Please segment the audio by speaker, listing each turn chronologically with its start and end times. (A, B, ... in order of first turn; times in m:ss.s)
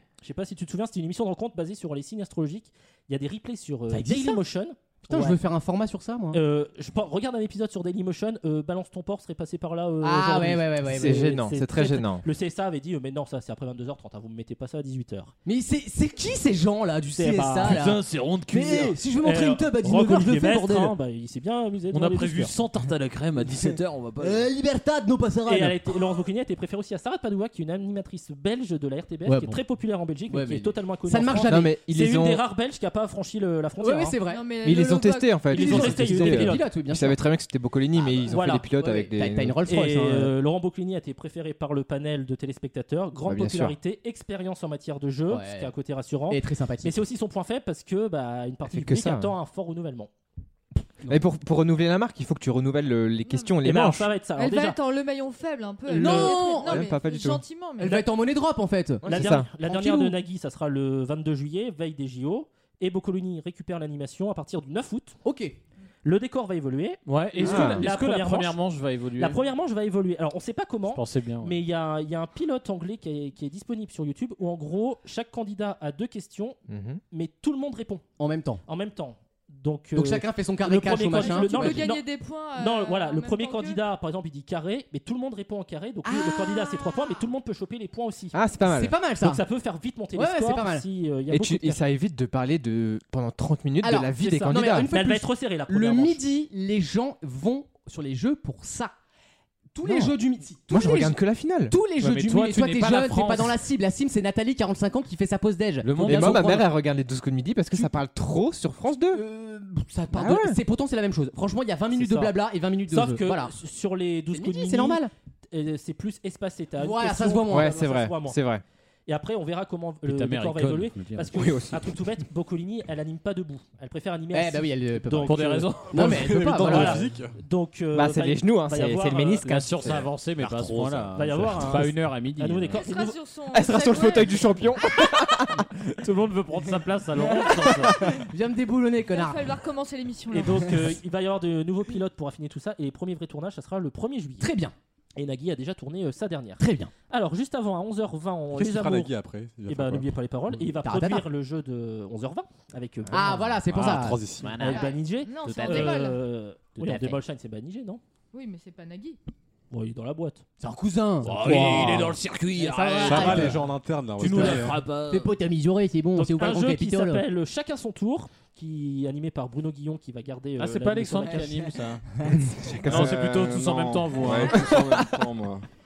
0:00.2-0:05.4 A
0:03.9-0:04.4 B
0:05.1-0:06.4 B
0:06.3-0:15.3 A
0:10.0-0:11.3 B
0:10.9-0:12.2 C
0:15.4-0:20.9 B
0:17.2-0:17.9 A
0:17.6-0:19.0 D
0:19.2-0:22.6 A
0:21.9-0:24.5 D
0:23.5-0:25.9 B
0:25.5-0:34.2 A
0:29.3-0:29.6 B
0:30.3-0:31.8 B
0:31.4-0:32.4 C
0:33.8-0:34.5 B
0:34.2-0:35.5 E
0:34.6-0:39.6 C
0:35.5-0:36.6 A
0:35.5-0:37.2 B
0:37.9-0:40.3 B
0:38.3-0:38.7 A
0:39.7-0:50.1 A
0:43.3-0:43.8 C
0:45.3-0:45.7 B
0:46.3-0:47.0 B
0:48.7-0:49.4 C
0:51.1-0:54.1 C
0:53.3-0:53.6 E
0:53.6-0:54.8 A
0:54.3-0:58.0 E
0:55.9-0:56.9 B
0:56.0-0:57.4 C
0:57.8-1:00.2 B
0:59.0-1:05.2 A
0:59.1-0:59.5 C
1:05.2-1:05.6 B
1:06.0-1:08.6 A
1:07.1-1:09.4 D
1:07.4-1:07.9 C
1:09.2-1:16.6 A
1:10.9-1:11.6 D
1:16.7-1:17.0 C
1:17.1-1:18.0 A
1:18.2-1:18.6 B
1:18.7-1:22.0 A
1:20.0-1:21.9 B
1:21.2-1:23.8 E
1:22.6-1:28.4 A
1:26.0-1:26.9 B
1:28.3-1:29.0 C
1:28.6-1:29.4 B
1:29.2-1:31.8 A
1:30.2-1:30.9 B
1:31.3-1:34.9 C
1:33.8-1:38.9 B
1:34.1-1:36.2 A
1:39.7-1:46.7 B
1:39.8-1:40.2 C
1:40.7-1:41.8 C
1:42.0-1:43.6 D
1:45.8-1:46.6 D
1:46.0-1:49.2 C
1:49.1-1:53.5 B
1:50.1-1:50.6 C
1:52.0-1:52.3 A
1:52.9-1:58.4 A
1:54.3-1:55.1 B
1:56.8-1:57.8 B
1:57.5-1:58.6 C
1:59.1-2:09.6 A
2:00.0-2:01.3 D
2:01.3-2:02.1 C
2:04.3-2:07.1 B
2:05.2-2:06.2 D
2:05.8-2:07.4 F
2:07.9-2:11.1 C
2:09.4-2:12.8 D
2:11.1-2:13.2 A
2:12.7-2:14.7 E
2:13.5-2:15.7 C
2:15.8-2:18.0 D
2:17.4-2:19.5 B
2:19.1-2:20.8 E
2:20.3-2:24.5 A
2:24.4-2:24.7 B
2:25.2-2:29.2 A
2:26.6-2:26.9 B
2:28.5-2:30.6 F
2:29.7-2:33.4 A
2:30.8-2:31.3 B
2:33.1-2:34.2 B
2:33.6-2:34.6 F
2:34.4-2:36.1 D
2:34.6-2:38.0 A
2:34.6-2:36.2 E
2:36.8-2:37.2 D
2:38.3-2:39.2 E
2:39.7-2:40.4 A
2:40.6-2:43.7 B
2:41.2-2:43.6 D
2:41.4-2:41.9 F
2:43.0-2:44.8 F
2:44.2-2:45.3 D
2:44.3-2:47.2 B
2:46.2-2:51.6 A
2:50.6-2:52.1 D
2:52.6-2:53.1 C
2:52.8-2:55.7 G
2:52.8-2:54.6 D